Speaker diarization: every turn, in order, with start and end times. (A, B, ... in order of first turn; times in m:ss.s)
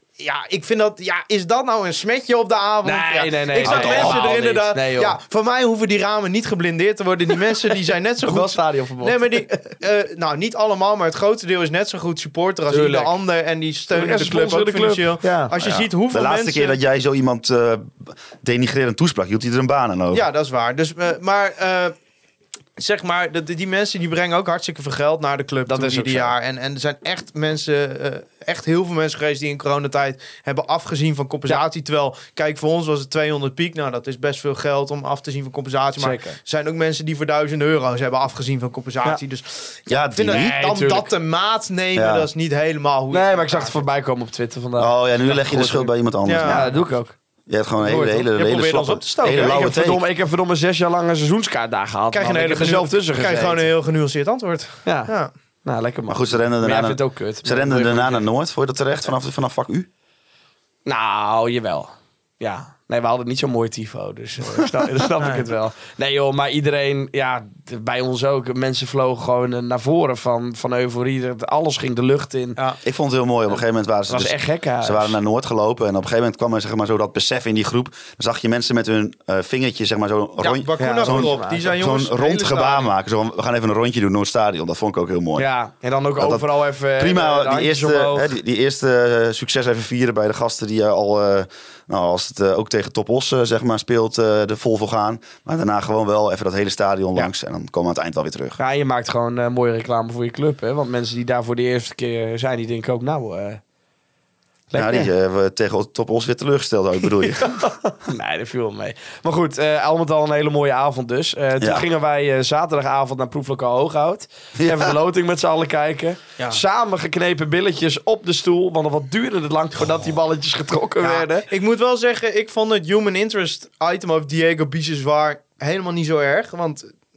0:00.2-0:16.8 A
0:02.8-0:05.2 B
0:03.6-0:04.2 C
0:08.2-0:09.4 B
0:12.7-0:13.2 B
0:13.9-0:15.5 B
0:15.6-0:20.3 C
0:20.1-0:21.9 A
0:22.8-0:43.8 A
0:25.7-0:26.3 B
0:36.0-0:36.4 B
0:39.9-0:40.5 C
0:40.3-0:41.1 B
0:42.0-0:42.3 C
0:43.1-0:45.9 B
0:44.8-0:46.7 C
0:46.2-0:46.7 A
0:46.4-0:47.2 B
0:47.5-0:50.0 C
0:47.8-0:48.3 B
0:48.4-0:49.8 A
0:49.3-0:53.7 B
0:52.1-0:55.3 A
0:54.8-0:55.1 B
0:55.6-0:58.3 B
0:56.1-0:59.9 C
1:00.9-1:12.6 B
1:05.2-1:05.5 A
1:12.8-1:25.5 C
1:14.1-1:15.2 B
1:20.4-1:22.9 A
1:20.8-1:21.6 B
1:25.4-1:28.3 B
1:26.2-1:38.6 C
1:38.6-1:43.6 B
1:44.7-1:45.1 B
1:44.8-1:47.6 C
1:47.3-2:01.5 B
1:51.6-1:51.8 C
1:54.6-1:54.9 C
2:01.0-2:06.9 A